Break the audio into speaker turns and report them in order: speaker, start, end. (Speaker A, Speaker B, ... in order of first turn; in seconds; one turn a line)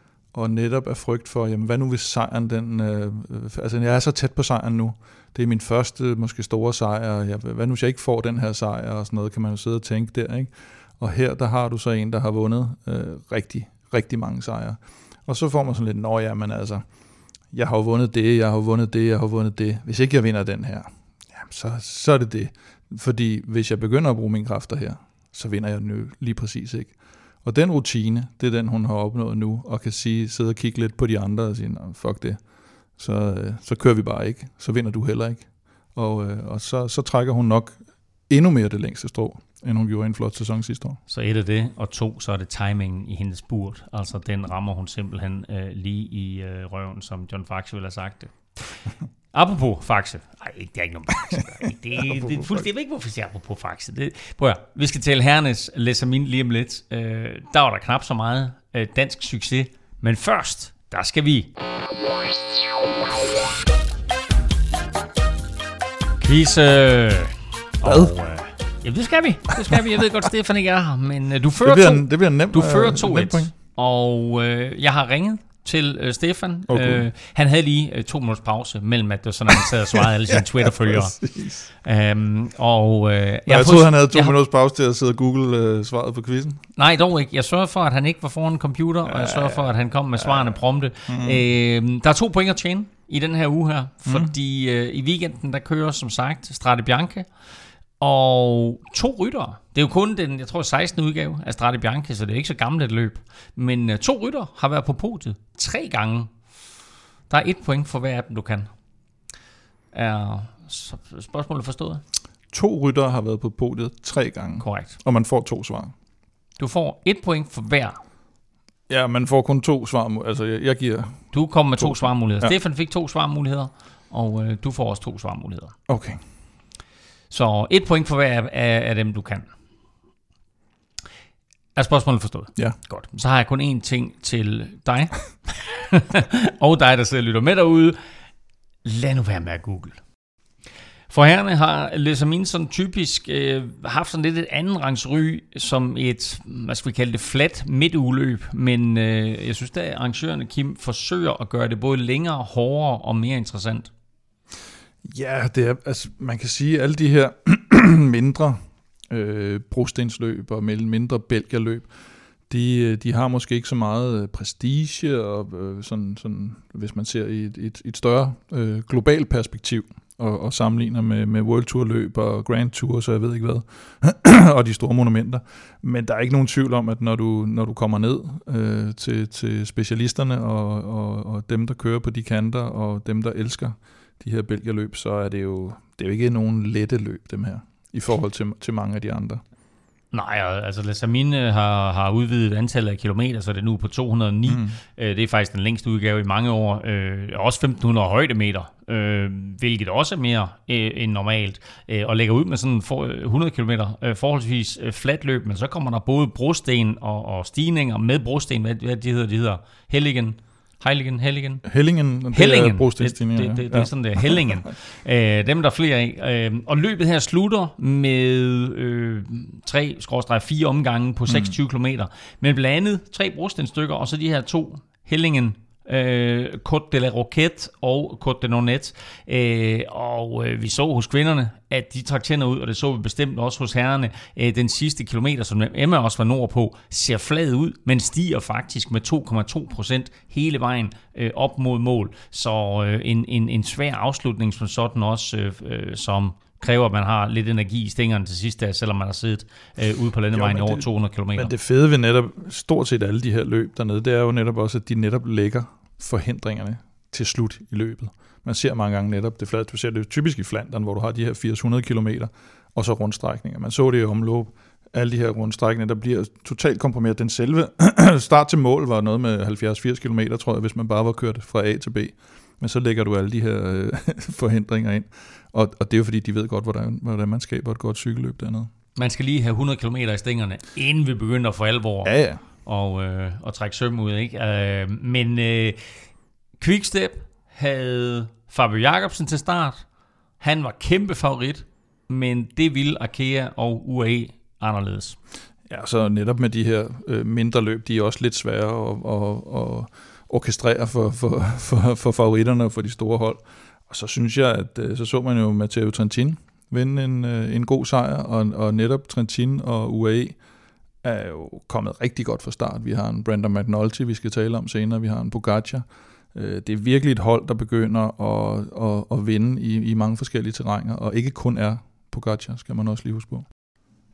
Speaker A: 0.3-16.9
Speaker A: 17.5-32.4
Speaker A: 33.0-37.8
Speaker A: 38.3-41.0
Speaker B: 41.1-48.8
Speaker B: 49.3-61.5
Speaker A: 52.1-52.7
Speaker B: 66.2-81.2
Speaker A: 67.8-68.2
Speaker A: 71.6-73.5
Speaker A: 76.7-77.1
Speaker A: 80.3-81.7
Speaker B: 81.8-84.4
Speaker A: 83.5-86.6
Speaker B: 86.8-97.3
Speaker A: 89.0-89.7
Speaker A: 90.2-91.4
Speaker A: 94.0-94.3
Speaker B: 98.0-106.3
Speaker B: 107.3-108.7
Speaker B: 109.9-112.0
Speaker A: 112.5-115.9
Speaker B: 114.6-115.0
Speaker B: 116.6-118.0
Speaker A: 118.9-122.5
Speaker B: 121.3-125.8
Speaker A: 125.9-126.2
Speaker B: 127.3-129.5
Speaker B: 131.8-138.0
Speaker B: 138.8-140.0
Speaker B: 141.1-153.9
Speaker A: 155.0-161.9
Speaker A: 162.5-189.4
Speaker B: 190.1-211.6
Speaker A: 194.5-194.8
Speaker A: 211.7-214.5
Speaker B: 212.3-251.5
Speaker A: 221.3-221.5
Speaker A: 250.3-278.7
Speaker B: 279.0-285.8
Speaker A: 282.0-282.4
Speaker B: 286.6-289.9
Speaker B: 290.4-295.2
Speaker A: 295.7-310.4
Speaker A: 311.0-323.5